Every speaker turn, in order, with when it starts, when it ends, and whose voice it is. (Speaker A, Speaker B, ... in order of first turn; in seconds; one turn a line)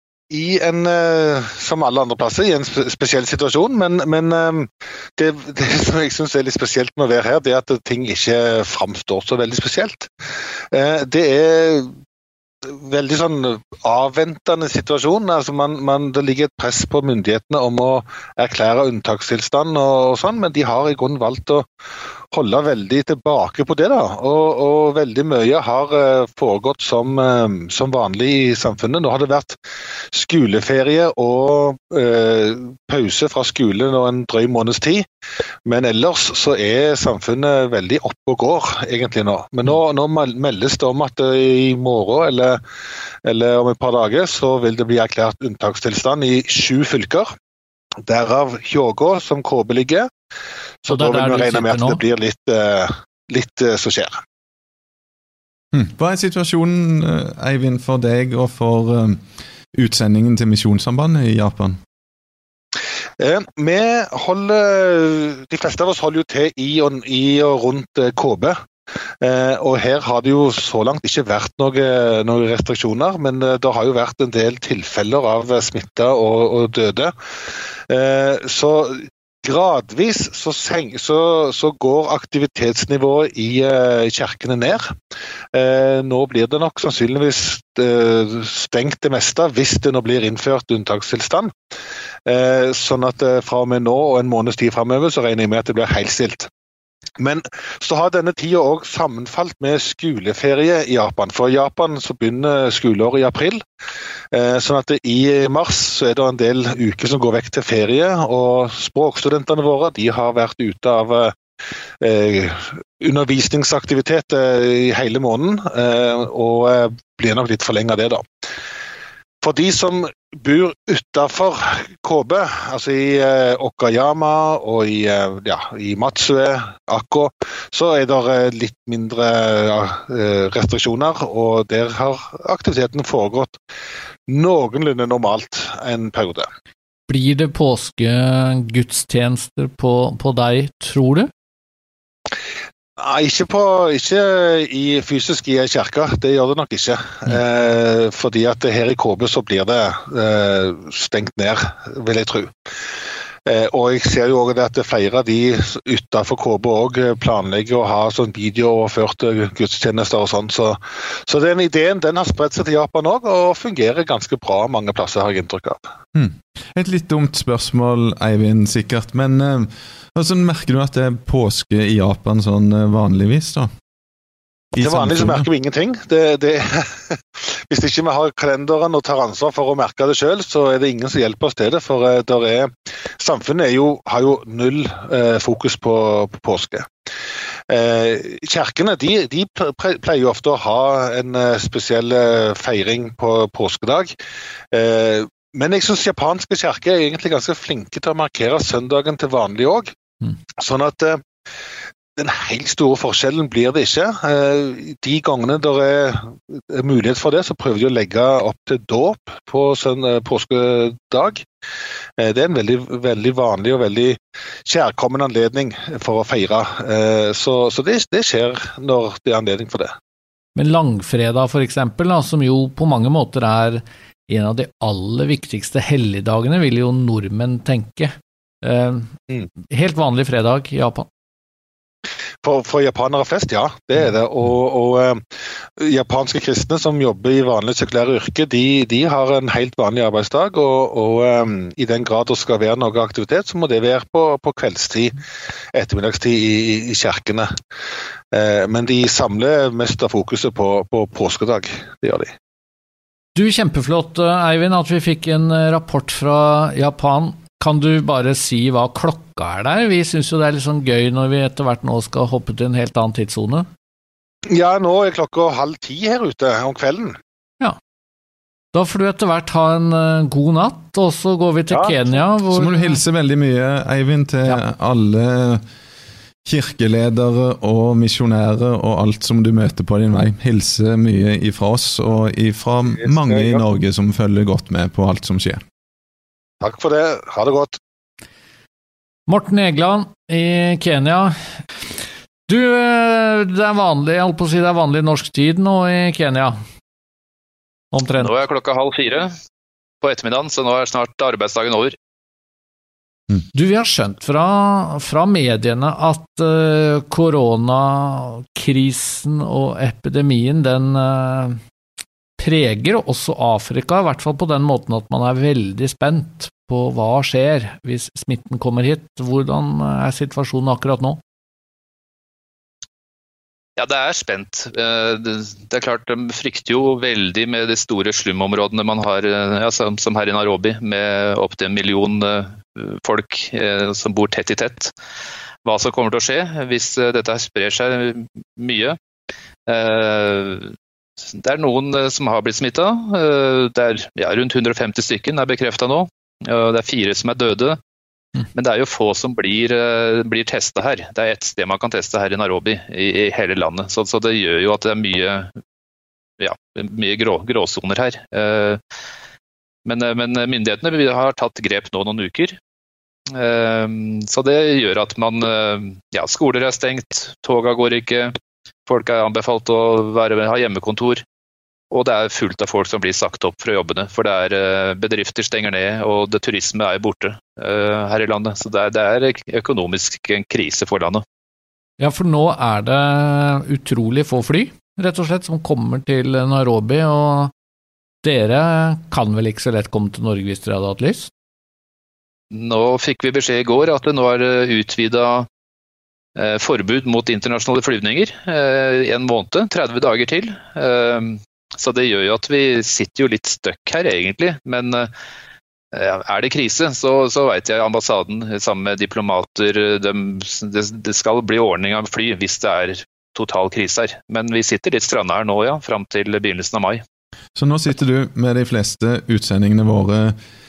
Speaker A: 0.3-10.1
Speaker A: 10.7-11.9
Speaker A: 12.6-21.6
Speaker A: 22.3-29.6
Speaker A: 30.1-35.0
Speaker A: 35.6-42.6
Speaker A: 43.2-47.3
Speaker A: 48.0-50.1
Speaker A: 50.8-54.2
Speaker B: 50.9-52.0
Speaker C: 55.7-61.8
Speaker A: 63.2-68.6
Speaker A: 69.2-77.1
Speaker A: 77.9-85.0
Speaker A: 85.5-91.5
Speaker A: 92.2-96.5
Speaker A: 97.2-103.6
Speaker A: 104.3-111.3
Speaker A: 112.0-118.2
Speaker A: 119.4-133.6
Speaker A: 134.3-136.5
Speaker B: 137.1-141.3
Speaker A: 143.0-152.5
Speaker A: 153.4-165.8
Speaker C: 166.1-173.7
Speaker C: 174.7-175.5
Speaker A: 174.8-186.9
Speaker A: 187.7-194.1
Speaker A: 194.7-199.9
Speaker A: 200.6-201.2
Speaker A: 202.2-211.4
Speaker A: 212.2-219.9
Speaker B: 220.6-229.1
Speaker B: 229.7-231.1
Speaker A: 232.4-235.2
Speaker A: 235.8-245.1
Speaker A: 245.7-247.5
Speaker A: 248.3-252.3
Speaker B: 253.3-263.7
Speaker A: 264.5-267.1
Speaker B: 268.7-273.0
Speaker A: 271.7-272.1
Speaker C: 272.5-275.6
Speaker C: 276.4-285.6
Speaker A: 283.1-283.6
Speaker A: 286.6-287.8
Speaker B: 289.3-291.6
Speaker B: 292.5-296.6
Speaker B: 297.9-298.4
Speaker D: 298.2-299.3
Speaker D: 300.0-301.9
Speaker B: 303.5-311.6
Speaker B: 312.4-321.2
Speaker D: 323.8-334.9
Speaker D: 335.6-339.0
Speaker D: 339.6-347.8
Speaker D: 348.5-355.5
Speaker D: 356.4-358.8
Speaker D: 359.8-362.6
Speaker D: 363.3-368.3
Speaker D: 368.9-371.2
Speaker D: 371.9-381.2
Speaker B: 382.0-387.5
Speaker B: 388.2-391.3
Speaker D: 392.5-395.5
Speaker D: 396.3-405.1
Speaker D: 405.9-417.0
Speaker C: 417.5-420.4